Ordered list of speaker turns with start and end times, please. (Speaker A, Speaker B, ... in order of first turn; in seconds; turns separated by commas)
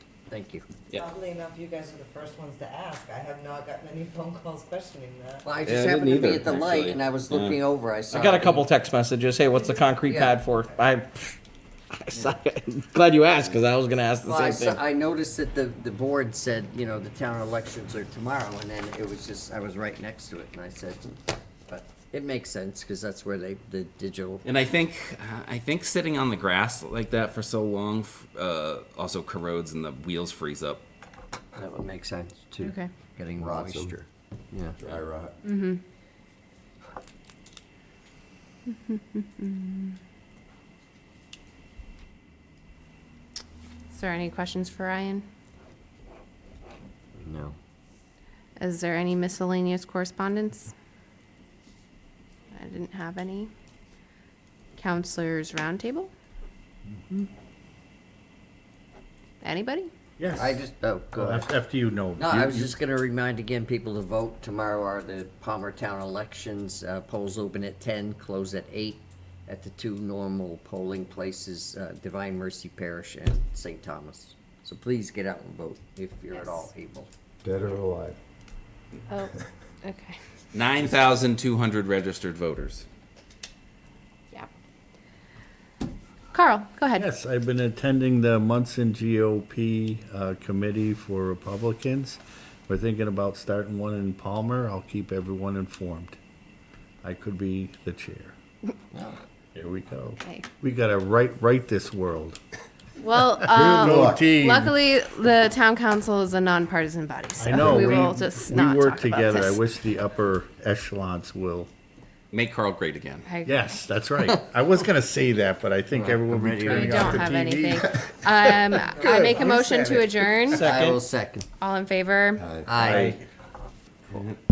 Speaker A: 0.3-0.7, Speaker B: 1.0-5.5, Speaker A: 5.4-8.7, Speaker C: 5.6-7.6, Speaker C: 8.1-8.6, Speaker D: 8.2-11.1, Speaker A: 10.0-10.4, Speaker D: 12.1-14.7, Speaker C: 13.8-14.7, Speaker A: 14.2-21.1, Speaker A: 21.7-24.4, Speaker C: 24.4-30.8, Speaker A: 31.6-34.8, Speaker E: 32.6-32.9, Speaker F: 33.4-33.9, Speaker F: 34.8-35.4, Speaker E: 35.4-35.8, Speaker E: 38.7-40.0, Speaker E: 43.9-45.2, Speaker A: 47.2-47.5, Speaker E: 48.6-50.7, Speaker E: 52.5-53.5, Speaker E: 54.8-56.1, Speaker G: 56.9-57.3, Speaker E: 59.4-59.9, Speaker G: 60.2-60.6, Speaker A: 60.4-61.5, Speaker G: 61.1-62.7, Speaker A: 62.1-77.1, Speaker E: 76.3-76.7, Speaker F: 77.4-78.2, Speaker E: 79.1-80.2, Speaker C: 80.5-82.8, Speaker E: 86.3-87.0, Speaker G: 86.9-96.2, Speaker G: 97.0-98.3, Speaker A: 98.9-99.2, Speaker G: 99.5-102.4, Speaker E: 103.0-109.6, Speaker G: 103.5-104.7, Speaker G: 107.4-111.7, Speaker C: 112.3-113.3, Speaker E: 113.2-113.6, Speaker G: 113.4-120.0, Speaker A: 115.9-117.3, Speaker E: 116.6-120.7, Speaker A: 119.0-120.0, Speaker D: 120.5-121.0, Speaker A: 120.6-121.5, Speaker E: 121.6-122.6, Speaker F: 122.4-123.0, Speaker A: 122.6-123.2, Speaker G: 122.7-123.2, Speaker C: 124.1-124.4